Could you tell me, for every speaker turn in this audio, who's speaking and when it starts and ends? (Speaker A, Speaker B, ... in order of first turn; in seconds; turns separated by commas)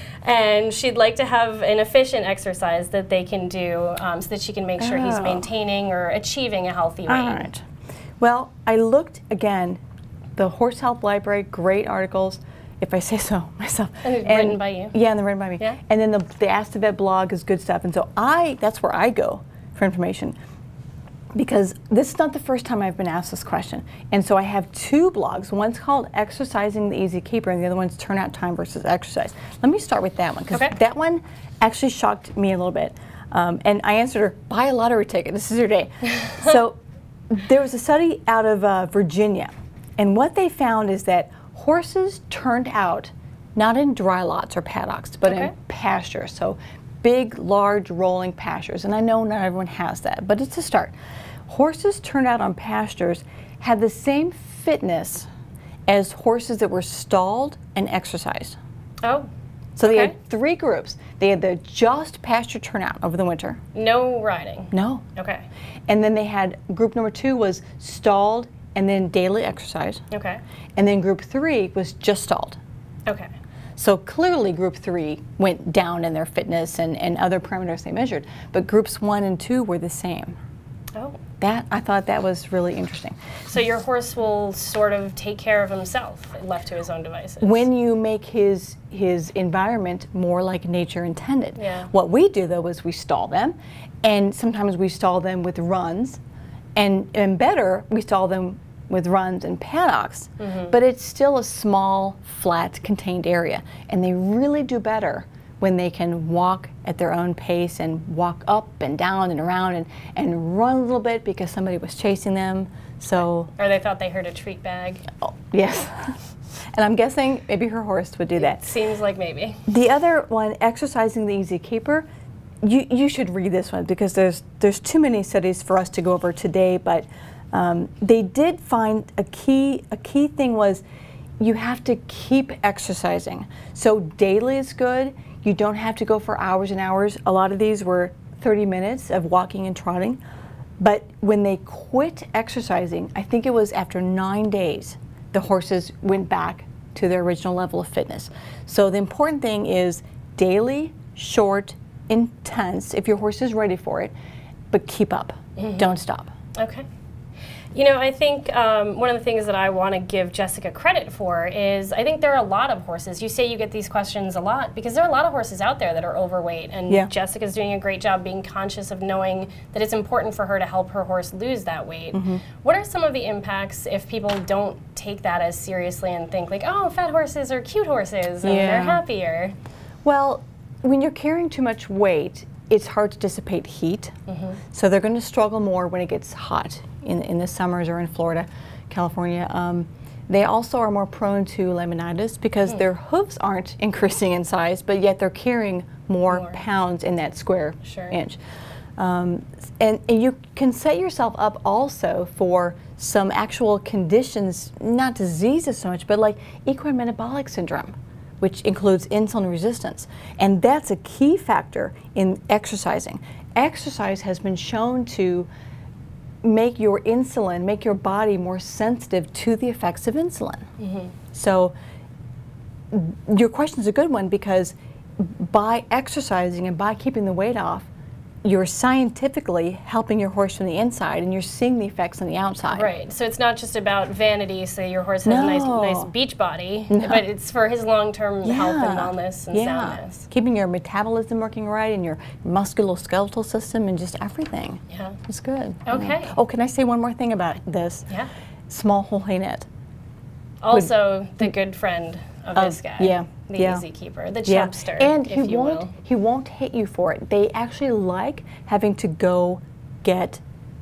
Speaker A: 0.2-7.5, Speaker B: 4.8-5.5, Speaker B: 7.1-7.6, Speaker B: 8.2-9.8, Speaker B: 10.3-20.4, Speaker A: 14.0-14.9, Speaker B: 21.3-36.8, Speaker B: 37.3-50.9, Speaker A: 45.2-45.5, Speaker B: 51.5-55.3, Speaker B: 55.9-58.6, Speaker A: 59.0-59.3, Speaker B: 59.8-63.6, Speaker A: 59.8-60.1, Speaker A: 63.7-65.4, Speaker B: 64.7-65.0, Speaker B: 65.9-70.0, Speaker A: 70.1-70.4, Speaker B: 70.8-72.6, Speaker B: 73.8-80.4, Speaker A: 80.9-81.2, Speaker B: 81.4-83.2, Speaker A: 83.5-87.7, Speaker B: 87.4-96.2, Speaker A: 91.6-91.9, Speaker B: 96.8-113.5, Speaker A: 100.4-100.7, Speaker A: 113.6-115.0, Speaker B: 115.2-116.2, Speaker B: 116.7-118.7, Speaker A: 118.4-119.6, Speaker B: 119.7-122.0, Speaker B: 122.6-130.8, Speaker B: 131.4-140.2, Speaker B: 140.8-154.1, Speaker B: 154.7-156.3, Speaker A: 155.6-155.9, Speaker A: 156.6-156.8, Speaker A: 157.7-179.5, Speaker B: 172.1-172.4, Speaker B: 178.4-179.0, Speaker B: 180.0-184.1, Speaker A: 184.3-184.6, Speaker B: 184.7-198.4, Speaker A: 196.3-196.6, Speaker A: 197.8-198.1, Speaker B: 199.0-215.5, Speaker B: 216.4-220.6, Speaker A: 220.8-221.1, Speaker B: 221.3-221.7, Speaker B: 222.9-227.9, Speaker B: 228.4-232.9, Speaker A: 232.7-240.3, Speaker B: 235.2-236.1, Speaker B: 236.9-237.2, Speaker B: 238.4-248.1, Speaker A: 244.9-245.2, Speaker A: 245.8-246.3, Speaker B: 248.7-249.7, Speaker A: 250.6-255.9, Speaker B: 252.5-253.8, Speaker B: 254.4-260.4